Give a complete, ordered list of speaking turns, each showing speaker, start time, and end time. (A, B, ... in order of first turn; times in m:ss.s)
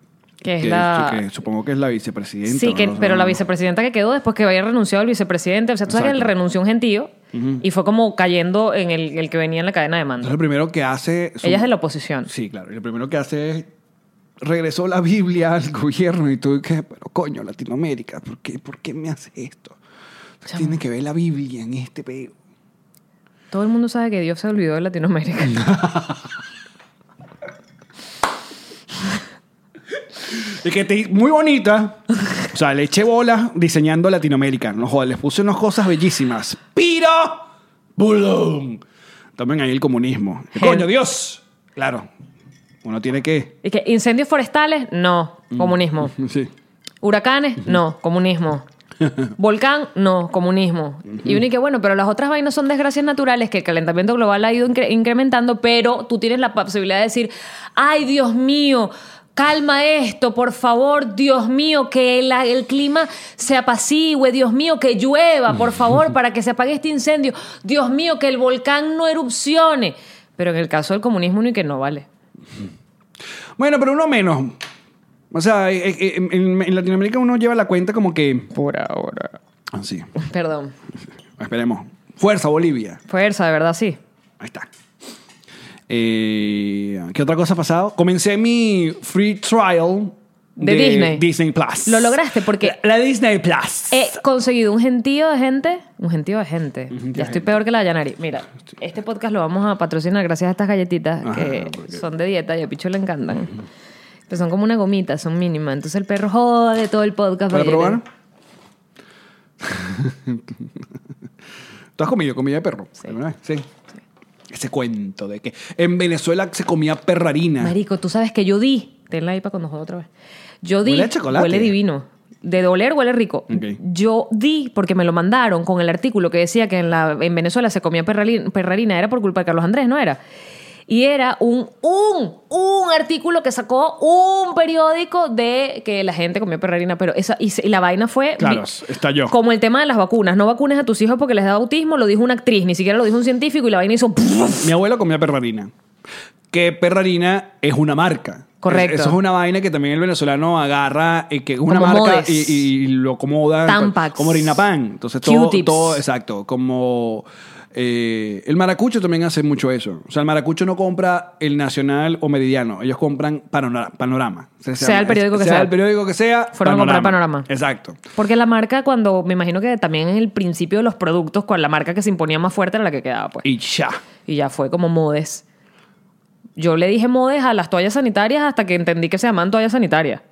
0:00.4-0:01.2 A
0:00.6-0:03.4 B
0:02.5-0:10.4 A
0:05.9-0:06.3 B
0:07.3-0:07.6 B
0:10.2-0:11.7 B
0:11.4-0:12.3 A
0:12.3-0:13.7 B
0:14.4-0:19.8 B
0:20.5-0:22.3 B
0:23.5-0:25.6 A
0:25.4-0:26.3 B
0:30.2-0:37.4 B
0:38.0-0:38.8 B
0:39.4-0:42.1 B
0:40.6-0:40.9 A
0:42.8-0:43.6 B
0:43.6-0:46.2 A
0:45.5-0:46.5 B
0:47.0-0:48.6 A
0:49.4-1:12.1 A
1:13.6-1:14.6 B
1:15.3-1:18.5 B
1:18.5-1:19.4 A
1:19.7-1:20.1 B
1:20.2-1:20.7 A
1:21.4-1:23.0 B
1:23.1-1:24.0 A
1:24.4-1:24.7 B
1:25.9-1:34.2 B
1:30.6-1:31.2 A
1:31.9-1:32.8 A
1:33.9-1:43.6 A
1:36.9-1:37.6 B
1:41.2-1:42.0 B
1:44.3-1:48.0 A
1:47.5-1:48.0 B
1:49.6-1:50.7 B
1:52.0-1:53.7 B
1:54.5-1:57.8 B
1:57.6-2:00.1 A
2:00.6-2:10.2 A
2:00.8-2:01.8 B
2:03.5-2:03.8 B
2:10.9-2:18.7 A
2:18.4-2:19.4 B
2:19.3-2:24.7 A
2:24.6-2:25.7 B
2:26.5-2:48.0 B
2:28.6-2:29.2 A
2:31.7-2:32.7 A
2:33.7-2:34.6 A
2:35.2-2:36.0 A
2:44.8-2:45.7 A
2:46.5-2:47.5 A
2:48.2-2:53.4 A
2:53.4-2:54.0 B
2:54.3-2:55.4 A
2:56.6-3:00.2 A